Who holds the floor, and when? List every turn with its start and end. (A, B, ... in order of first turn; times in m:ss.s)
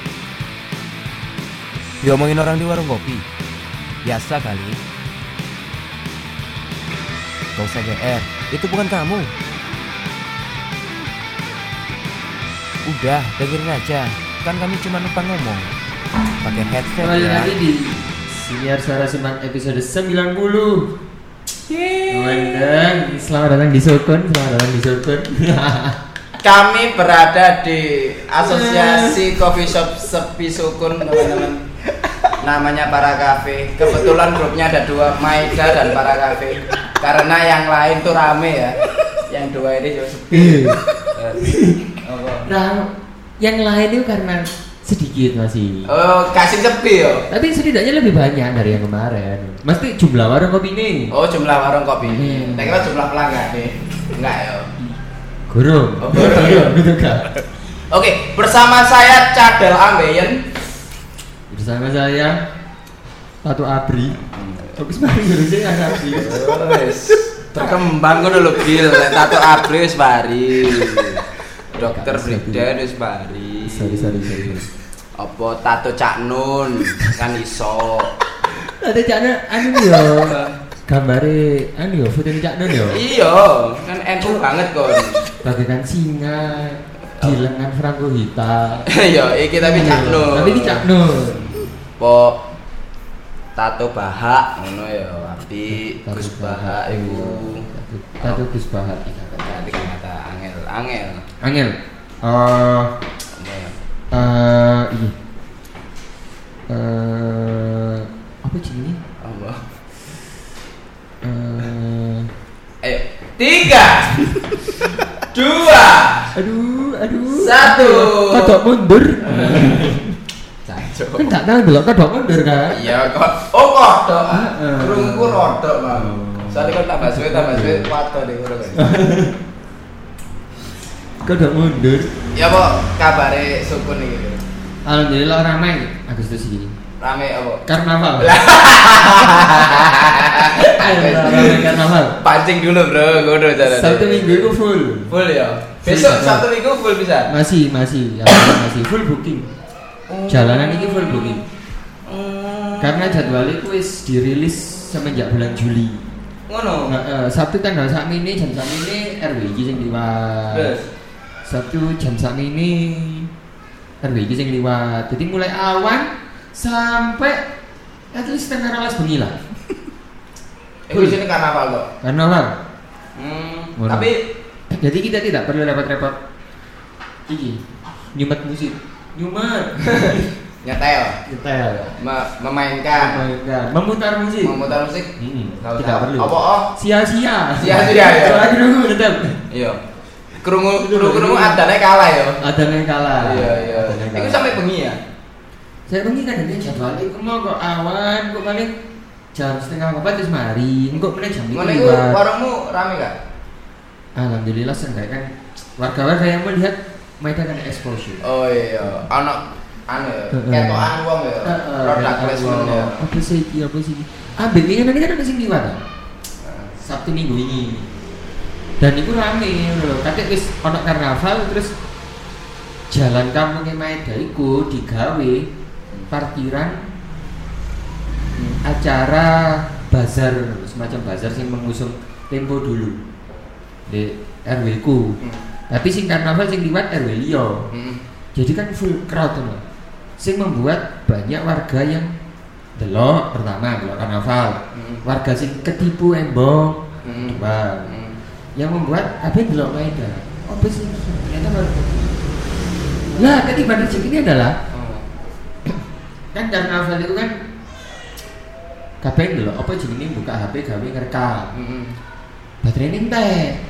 0:02.0-0:03.2 A
0:04.0-0:04.8 A
0:07.6-0:09.3 A
0:12.8-0:15.7 A
0:16.4-0:17.5 A
0:17.0-0:20.9 B
0:21.6-0:22.6 C
0:22.1-0:26.0 B
0:26.4-0:31.6 C
0:28.5-0:29.2 B
0:32.4-0:41.4 C
0:40.3-0:40.8 B
0:41.4-0:41.8 B
0:42.0-0:42.5 C
0:42.4-0:42.9 B
0:43.4-0:45.9 B
0:45.9-0:47.2 C
0:47.3-0:51.1 B
0:51.1-0:54.7 C
0:52.0-0:52.8 B
0:55.5-0:57.3 B
0:56.0-0:56.7 C
0:57.9-1:00.4 C
1:01.5-1:02.4 B
1:03.4-1:04.2 B
1:04.1-1:04.7 C
1:04.7-1:06.4 B
1:06.1-1:11.2 C
1:11.7-1:12.7 B
1:11.8-1:14.5 C
1:13.6-1:14.7 B
1:15.2-1:18.1 C
1:18.7-1:20.3 B
1:19.9-1:20.5 C
1:20.9-1:23.0 B
1:22.9-1:25.2 C
1:25.4-1:28.8 B
1:28.9-1:30.8 C
1:29.6-1:31.5 B
1:32.0-1:32.4 C
1:33.6-1:37.6 C
1:36.0-1:39.9 B
1:39.5-1:41.2 C
1:41.4-1:42.9 B
1:43.4-1:43.7 C
1:44.1-1:45.1 B
1:46.7-1:49.0 B
1:49.2-1:49.6 C
1:51.2-1:52.3 B
1:52.8-1:54.1 C
1:54.1-1:54.4 B
1:55.3-1:56.3 C
1:56.3-2:00.1 B
1:57.3-1:58.6 C
1:59.3-1:59.8 C
2:00.6-2:01.3 C
2:01.2-2:02.8 B
2:02.7-2:08.9 C
2:04.3-2:07.9 B
2:08.8-2:09.3 B
2:11.2-2:12.1 B
2:12.3-2:14.4 C
2:14.8-2:16.7 B
2:17.0-2:17.6 C
2:17.7-2:18.4 B
2:18.2-2:24.5 C
2:20.4-2:22.2 B
2:23.7-2:25.1 B
2:25.1-2:27.3 C
2:25.8-2:26.4 B
2:27.3-2:29.5 B
2:30.1-2:31.4 C
2:30.3-2:31.4 B
2:32.0-2:33.4 C
2:32.8-2:36.1 B
2:36.5-2:36.9 C
2:36.9-2:40.7 B
2:40.5-2:40.8 C
2:41.5-2:43.3 B
2:44.0-2:47.4 B
2:48.1-2:49.4 B
2:50.9-2:51.9 C
2:52.0-2:52.5 B
2:53.2-2:54.2 C
2:53.8-2:54.1 B
2:54.7-2:56.2 B
2:57.3-2:57.6 B
2:58.1-3:00.3 B
3:00.6-3:01.2 C
3:01.3-3:01.9 B
3:01.9-3:03.2 C
3:02.9-3:04.6 B
3:04.4-3:05.1 C
3:05.2-3:09.4 B
3:05.6-3:06.7 C
3:07.6-3:08.5 C
3:09.5-3:09.8 C
3:10.4-3:12.4 C
3:10.8-3:11.6 B
3:12.4-3:14.6 B
3:13.2-3:15.0 C
3:15.9-3:18.7 B
3:19.3-3:22.2 B
3:21.5-3:23.1 C
3:24.2-3:28.2 B
3:28.2-3:33.0 C
3:30.3-3:30.9 B
3:31.4-3:35.8 B
3:36.4-3:36.7 C
3:36.8-3:37.9 B
3:38.8-3:41.7 B
3:42.9-3:45.5 B
3:46.1-3:46.8 B
3:48.6-3:53.0 B
3:53.9-3:55.2 B
3:55.7-3:57.6 B
3:57.7-3:58.0 C
3:58.3-3:59.6 B
4:00.2-4:02.1 B
4:02.8-4:07.9 B
4:04.7-4:05.0 C
4:07.0-4:08.2 C
4:08.6-4:12.2 B
4:13.2-4:14.6 B
4:14.7-4:15.0 C
4:16.3-4:17.4 B
4:19.0-4:21.5 B
4:21.5-4:21.9 C
4:22.6-4:23.6 B